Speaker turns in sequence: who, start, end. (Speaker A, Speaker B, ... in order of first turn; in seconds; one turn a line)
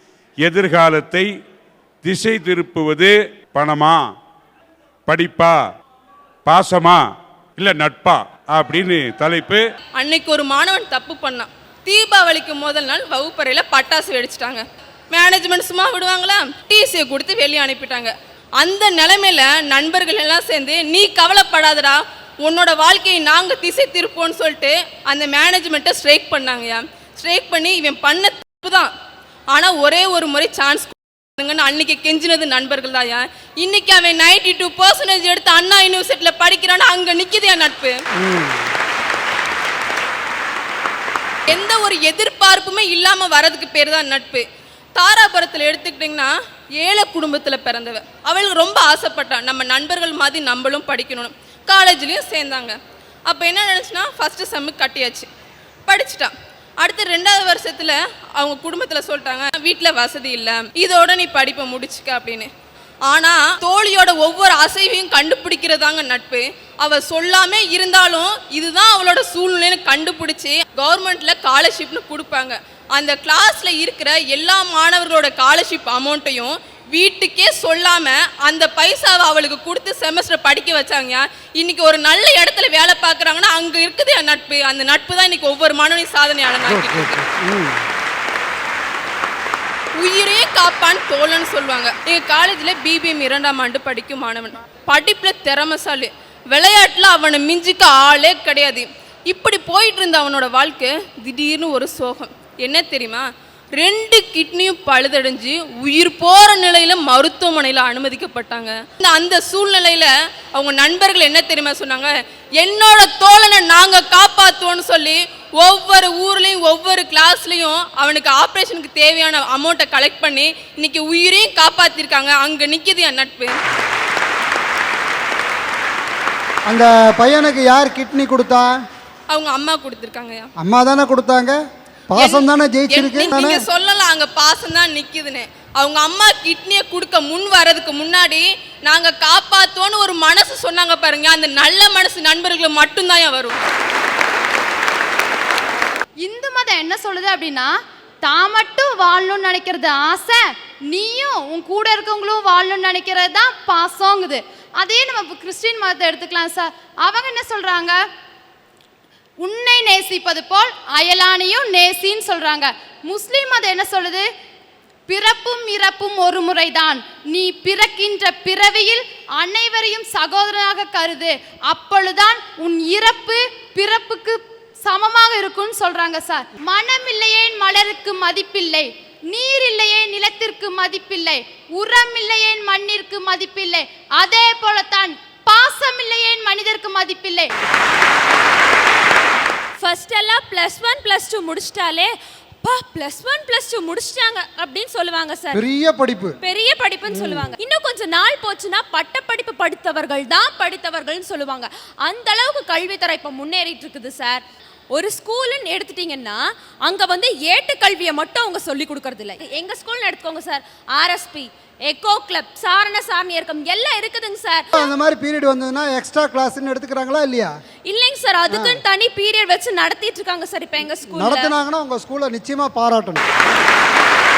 Speaker A: 0.4-1.3
Speaker A: 2.0-4.0
Speaker A: 5.1-5.5
Speaker A: 6.5-7.0
Speaker A: 7.6-9.6
Speaker B: 10.0-28.9
Speaker B: 29.5-38.0
Speaker C: 38.2-38.7
Speaker B: 41.5-44.4
Speaker B: 45.0-46.3
Speaker B: 46.8-52.8
Speaker B: 53.3-55.3
Speaker B: 55.9-62.5
Speaker B: 63.1-87.2
Speaker C: 86.6-87.8
Speaker B: 90.0-103.2
Speaker B: 103.8-123.5
Speaker C: 126.7-128.7
Speaker B: 129.3-130.5
Speaker C: 130.6-131.6
Speaker C: 132.1-133.7
Speaker B: 132.2-143.6
Speaker D: 146.2-158.0
Speaker D: 159.4-164.3
Speaker D: 165.1-187.5
Speaker E: 189.8-195.6
Speaker C: 195.5-196.4
Speaker E: 196.4-214.7
Speaker C: 197.1-197.6
Speaker C: 214.7-217.5
Speaker E: 217.9-221.5
Speaker C: 218.5-218.8
Speaker C: 221.1-223.3